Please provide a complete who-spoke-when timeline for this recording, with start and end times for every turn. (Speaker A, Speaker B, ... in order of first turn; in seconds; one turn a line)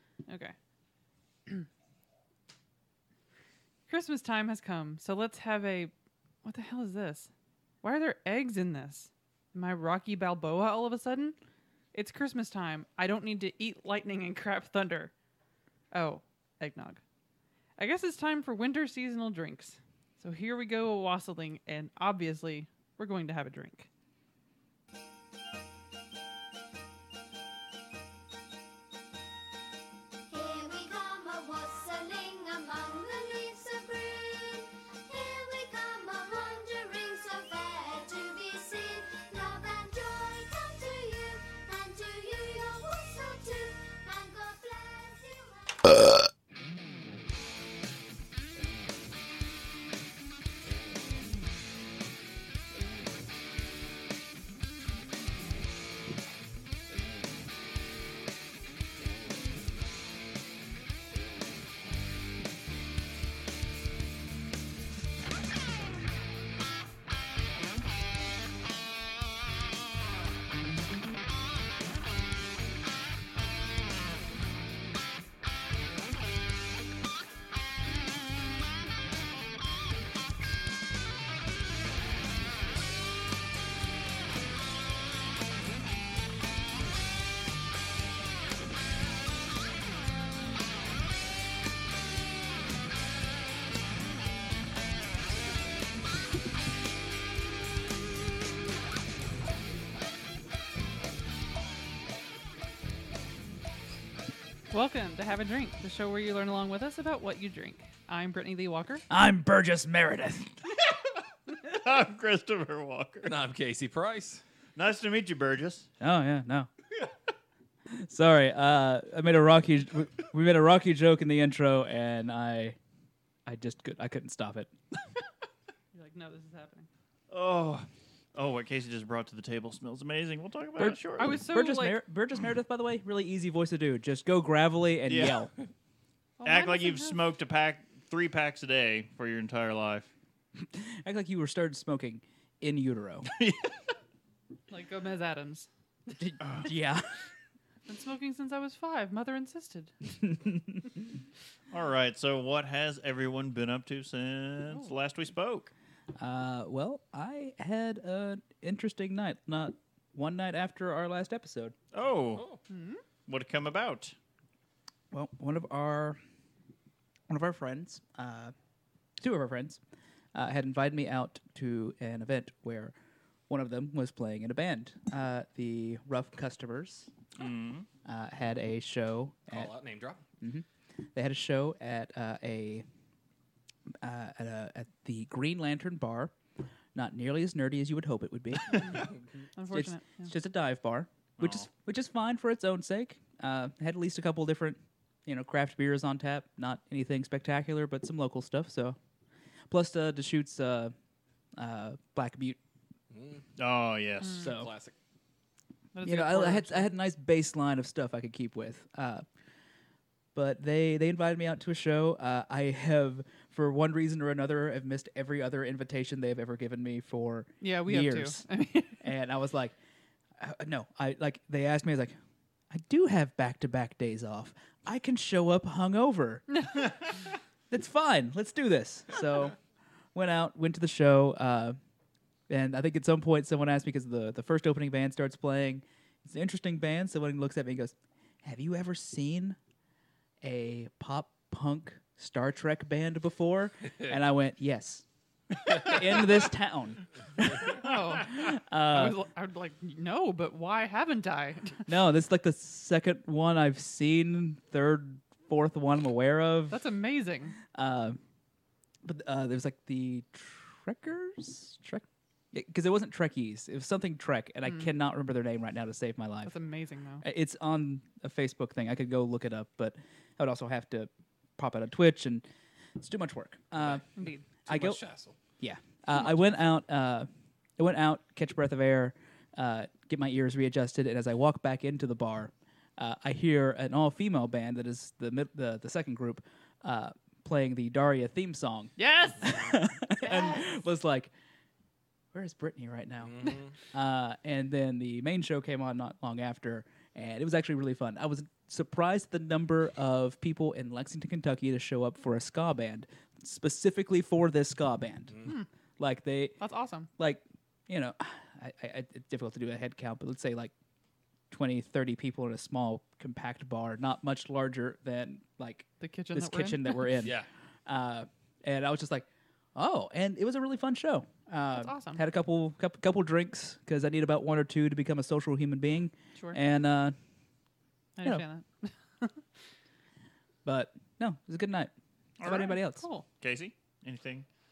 Speaker A: 0.3-0.6
Speaker A: 3.9-5.9
Speaker A: 6.4-7.3
Speaker A: 7.8-11.4
Speaker A: 11.9-15.1
Speaker A: 15.9-17.0
Speaker A: 17.8-23.9
Speaker B: 30.3-45.9
Speaker A: 104.7-109.1
Speaker C: 109.1-110.5
Speaker D: 111.6-113.3
Speaker E: 113.2-114.4
Speaker D: 114.8-115.9
Speaker C: 116.0-116.7
Speaker C: 117.9-122.8
Speaker C: 123.5-124.7
Speaker A: 125.9-126.9
Speaker D: 127.3-131.4
Speaker C: 130.8-135.5
Speaker A: 130.8-132.0
Speaker D: 135.1-135.4
Speaker A: 136.4-137.2
Speaker D: 136.4-140.1
Speaker C: 140.7-143.3
Speaker D: 143.3-143.7
Speaker A: 144.7-145.7
Speaker C: 146.2-147.2
Speaker A: 147.9-149.9
Speaker C: 150.4-150.8
Speaker D: 151.7-155.7
Speaker C: 156.2-161.8
Speaker D: 161.9-162.5
Speaker A: 162.7-163.0
Speaker D: 163.3-164.1
Speaker C: 165.1-166.2
Speaker C: 167.3-168.5
Speaker C: 169.2-169.8
Speaker C: 170.3-172.9
Speaker C: 173.5-177.1
Speaker D: 177.4-177.9
Speaker C: 178.1-179.7
Speaker E: 179.5-180.2
Speaker C: 180.4-182.8
Speaker C: 184.0-186.3
Speaker C: 186.9-189.1
Speaker A: 188.7-190.3
Speaker C: 189.7-199.0
Speaker D: 191.4-191.7
Speaker C: 199.7-200.9
Speaker C: 201.6-202.6
Speaker E: 203.1-203.4
Speaker D: 203.6-204.4
Speaker C: 204.4-204.7
Speaker E: 204.4-204.9
Speaker A: 205.9-206.9
Speaker C: 206.0-209.2
Speaker C: 210.3-218.4
Speaker A: 217.6-219.1
Speaker C: 219.0-219.8
Speaker C: 220.4-222.2
Speaker C: 222.7-226.9
Speaker C: 227.7-229.6
Speaker C: 230.1-231.8
Speaker C: 232.5-239.6
Speaker C: 240.4-245.1
Speaker C: 245.6-249.2
Speaker A: 247.7-251.9
Speaker C: 251.9-256.8
Speaker A: 256.7-257.6
Speaker C: 257.7-258.2
Speaker C: 259.0-266.5
Speaker A: 266.4-267.2
Speaker C: 267.2-272.4
Speaker C: 273.0-274.1
Speaker E: 273.8-274.1
Speaker A: 274.2-274.4
Speaker C: 274.7-275.0
Speaker E: 274.7-275.4
Speaker C: 275.6-291.3
Speaker A: 289.0-290.6
Speaker C: 292.3-305.4
Speaker E: 293.2-293.7
Speaker C: 306.0-306.6
Speaker A: 306.6-307.1
Speaker C: 307.2-310.7
Speaker C: 311.5-327.1
Speaker A: 316.0-317.2
Speaker E: 317.2-317.5
Speaker A: 321.7-322.2
Speaker A: 328.2-329.4
Speaker C: 330.6-333.0
Speaker D: 332.4-332.8
Speaker A: 332.4-333.3
Speaker D: 333.4-334.4